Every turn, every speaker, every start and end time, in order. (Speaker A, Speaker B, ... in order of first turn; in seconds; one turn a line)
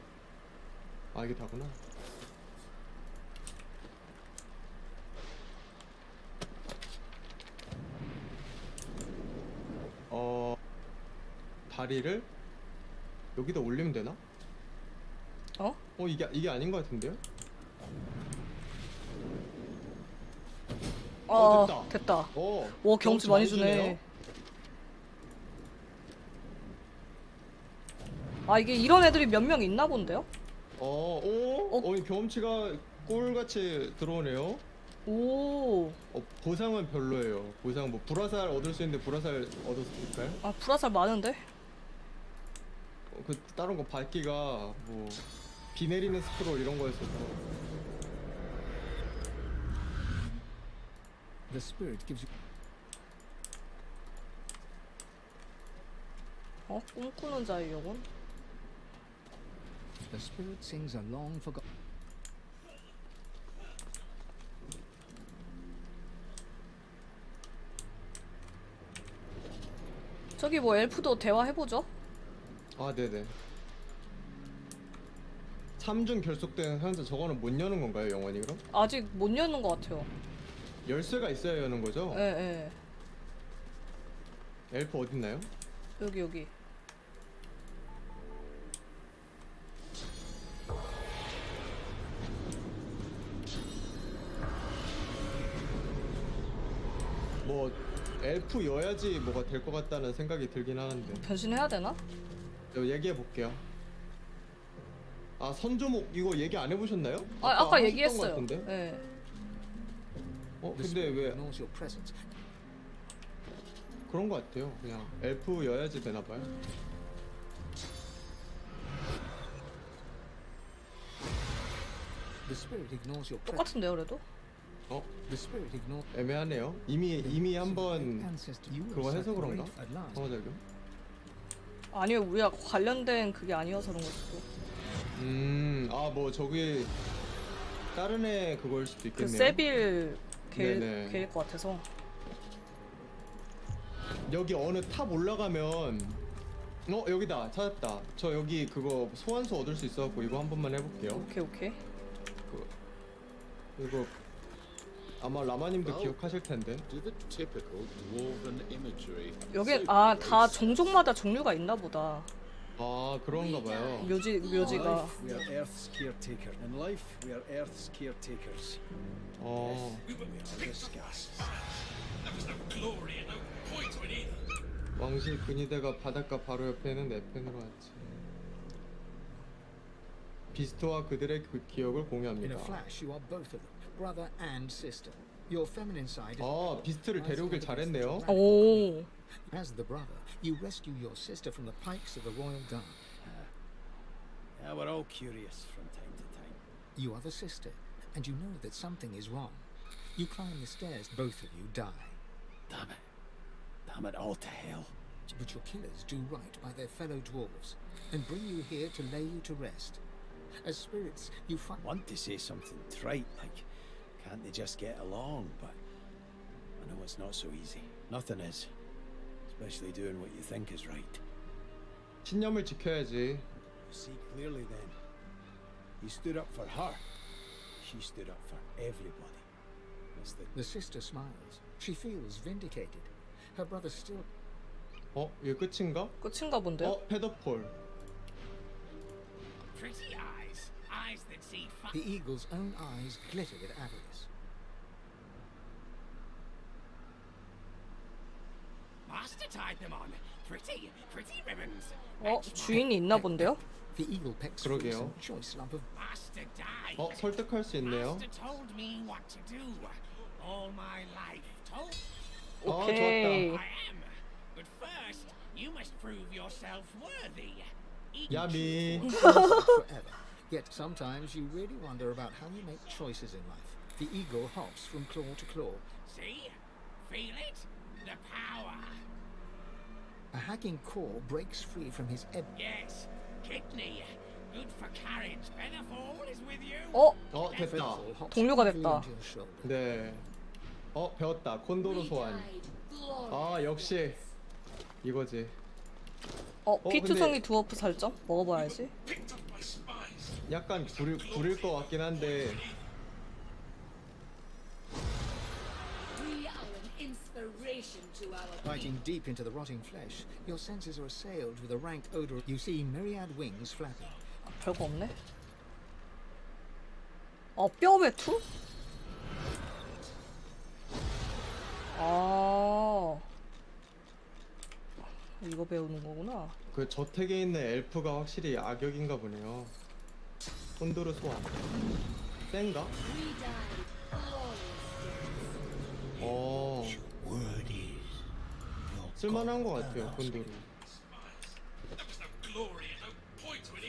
Speaker A: 1.1-1.8
Speaker A: 10.1-10.6
Speaker A: 11.7-12.3
Speaker A: 13.3-14.2
Speaker A: 16.0-17.2
Speaker B: 21.3-24.0
Speaker A: 21.3-24.0
Speaker B: 28.5-30.3
Speaker A: 30.8-34.6
Speaker B: 35.1-36.0
Speaker A: 36.1-40.4
Speaker B: 40.4-41.4
Speaker A: 43.1-47.4
Speaker C: 51.5-52.3
Speaker B: 56.7-58.0
Speaker C: 60.1-61.6
Speaker B: 70.4-71.9
Speaker A: 72.8-73.3
Speaker A: 75.8-78.6
Speaker B: 78.7-80.1
Speaker A: 80.8-82.2
Speaker B: 82.1-82.8
Speaker A: 84.7-85.5
Speaker B: 86.0-86.5
Speaker A: 97.5-101.3
Speaker B: 101.2-102.0
Speaker A: 102.7-103.6
Speaker A: 105.4-108.7
Speaker B: 107.4-109.0
Speaker A: 110.6-111.4
Speaker C: 110.8-112.3
Speaker A: 114.1-116.5
Speaker C: 122.5-123.8
Speaker B: 123.5-124.2
Speaker C: 125.3-126.1
Speaker A: 126.1-128.3
Speaker C: 127.2-130.3
Speaker A: 128.9-130.6
Speaker B: 131.9-134.4
Speaker A: 135.1-136.9
Speaker A: 137.9-139.7
Speaker B: 139.2-141.9
Speaker A: 140.6-141.3
Speaker A: 144.3-146.2
Speaker A: 146.9-151.3
Speaker B: 151.1-151.8
Speaker A: 153.8-154.2
Speaker A: 155.2-156.8
Speaker D: 155.8-161.0
Speaker B: 159.5-162.3
Speaker A: 162.8-164.2
Speaker E: 163.3-165.5
Speaker B: 164.0-165.2
Speaker D: 164.6-168.8
Speaker A: 169.4-170.1
Speaker D: 169.6-171.7
Speaker A: 175.0-178.2
Speaker A: 180.5-182.9
Speaker C: 182.4-193.1
Speaker A: 186.4-188.3
Speaker B: 188.3-189.1
Speaker D: 193.2-193.5
Speaker D: 194.6-196.6
Speaker C: 196.9-202.2
Speaker D: 202.7-203.0
Speaker D: 203.9-204.9
Speaker C: 205.3-210.0
Speaker C: 210.6-211.8
Speaker D: 211.8-215.8
Speaker D: 216.8-218.7
Speaker D: 219.5-221.2
Speaker A: 222.2-223.5
Speaker D: 223.9-225.0
Speaker D: 226.0-227.0
Speaker D: 227.8-229.5
Speaker D: 230.2-230.5
Speaker C: 230.5-234.3
Speaker A: 235.1-236.2
Speaker B: 236.2-237.0
Speaker A: 236.8-237.8
Speaker F: 239.7-242.0
Speaker C: 241.9-244.3
Speaker F: 249.1-252.9
Speaker B: 252.2-253.6
Speaker C: 253.0-255.9
Speaker A: 254.6-255.2
Speaker F: 255.9-257.2
Speaker A: 257.0-258.3
Speaker F: 257.8-262.0
Speaker B: 262.6-263.6
Speaker A: 262.6-263.6
Speaker F: 263.2-268.7
Speaker C: 268.3-275.9
Speaker A: 268.3-269.1
Speaker B: 269.2-269.8
Speaker F: 276.1-279.0
Speaker C: 280.3-282.5
Speaker F: 282.6-288.0
Speaker B: 286.9-287.2
Speaker A: 287.3-288.1
Speaker C: 287.4-289.8
Speaker B: 288.3-289.1
Speaker A: 289.6-290.3
Speaker A: 290.9-292.5
Speaker E: 291.8-294.3
Speaker A: 293.3-294.2
Speaker A: 295.0-295.6
Speaker B: 296.7-298.9
Speaker A: 296.8-297.4
Speaker A: 300.5-302.7
Speaker E: 306.1-308.9
Speaker C: 308.6-314.2
Speaker B: 314.5-315.1
Speaker B: 317.6-318.4
Speaker B: 321.9-323.2
Speaker B: 325.4-326.6
Speaker A: 326.7-329.7
Speaker A: 330.8-331.6
Speaker A: 332.5-332.9
Speaker E: 333.0-335.9
Speaker A: 336.2-337.0
Speaker D: 336.8-338.2
Speaker D: 338.9-340.4
Speaker A: 339.2-340.7